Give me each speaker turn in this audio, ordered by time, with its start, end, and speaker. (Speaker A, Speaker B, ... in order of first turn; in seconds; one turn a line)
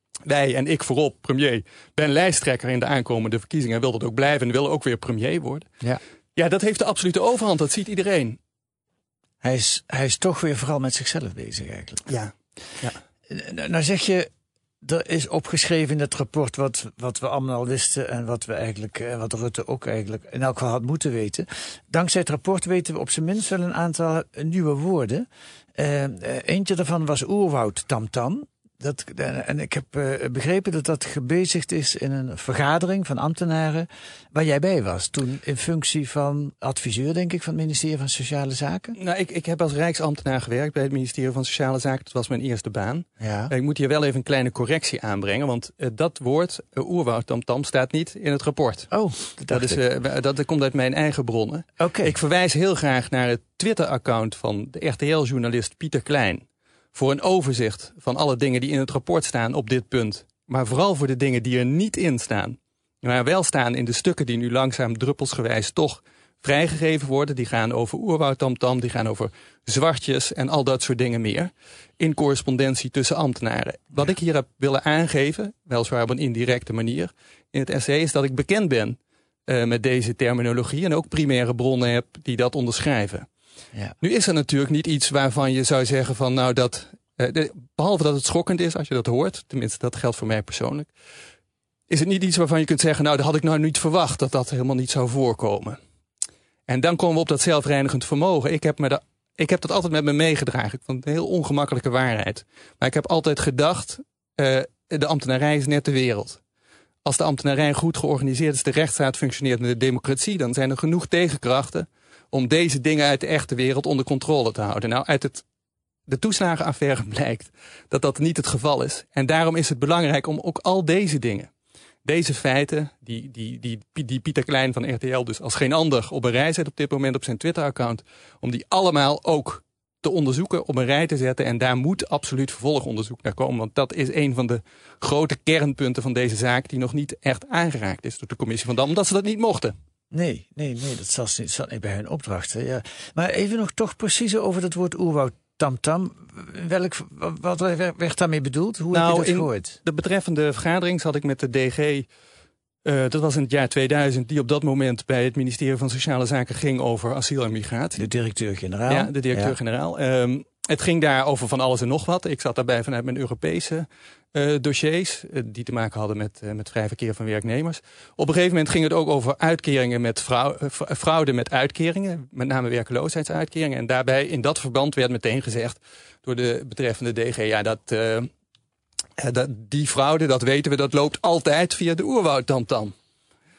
Speaker A: 0.2-5.7
Speaker A: 6.3-8.4
Speaker B: 9.4-12.1
Speaker A: 12.1-13.0
Speaker B: 13.3-14.3
Speaker B: 14.8-39.0
Speaker A: 39.0-48.9
Speaker B: 43.2-43.5
Speaker B: 48.9-49.8
Speaker A: 49.5-83.3
Speaker B: 51.8-52.1
Speaker A: 84.0-90.9
Speaker A: 91.9-95.8
Speaker A: 96.7-106.4
Speaker A: 107.0-115.4
Speaker A: 116.1-121.5
Speaker A: 122.0-139.7
Speaker B: 140.1-149.8
Speaker A: 148.9-152.1
Speaker A: 152.8-158.0
Speaker B: 158.0-159.6
Speaker A: 158.9-178.3
Speaker A: 179.2-182.9